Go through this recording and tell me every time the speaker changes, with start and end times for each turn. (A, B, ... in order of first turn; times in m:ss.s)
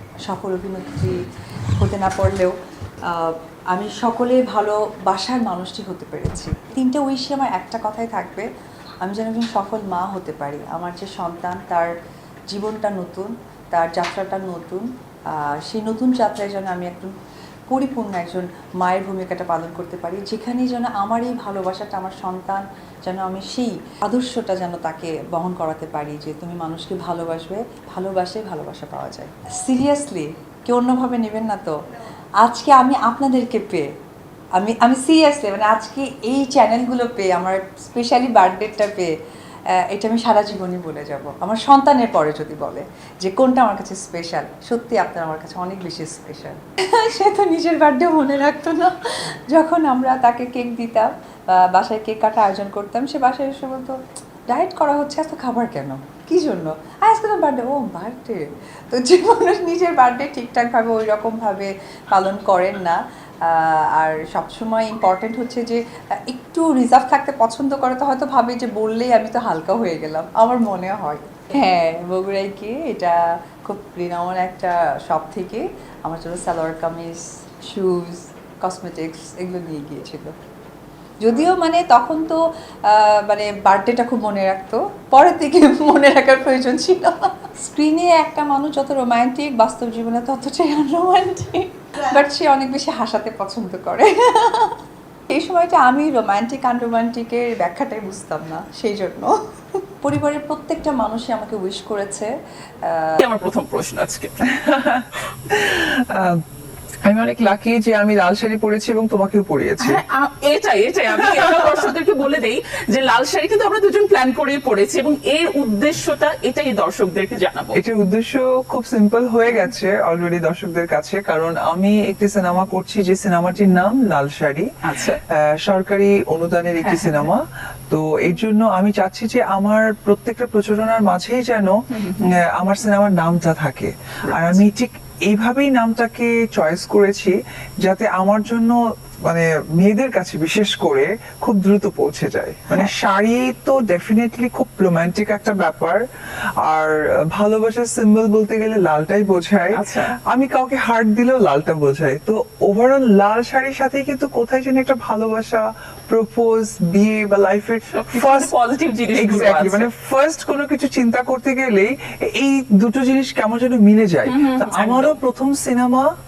0:00.2-0:01.2 A
0:01.8-0:02.5 A
0:03.1-0:08.4 A
0:09.0-0:11.9 A
0:12.5-0:17.1 A
0:17.7-0:31.7 A
0:32.4-0:33.9 A
0:34.6-0:39.1 A
0:39.8-0:48.9 A
0:49.5-0:54.0 A
0:54.5-1:20.3 A
1:21.2-1:22.4 A
1:22.9-1:34.8 A
1:35.3-1:42.3 A
1:42.8-1:43.2 A
1:43.2-1:44.3 B
1:44.4-1:46.4 C
1:47.0-1:50.0 C
1:49.8-1:57.8 B
1:57.7-2:04.7 C
2:04.8-2:05.2 B
2:05.3-2:26.0 C
2:06.8-2:07.3 B
2:14.2-2:14.6 B
2:26.6-2:38.5 C
2:29.7-2:30.2 B
2:37.9-2:39.9 B
2:39.1-2:46.1 C
2:44.2-2:45.2 B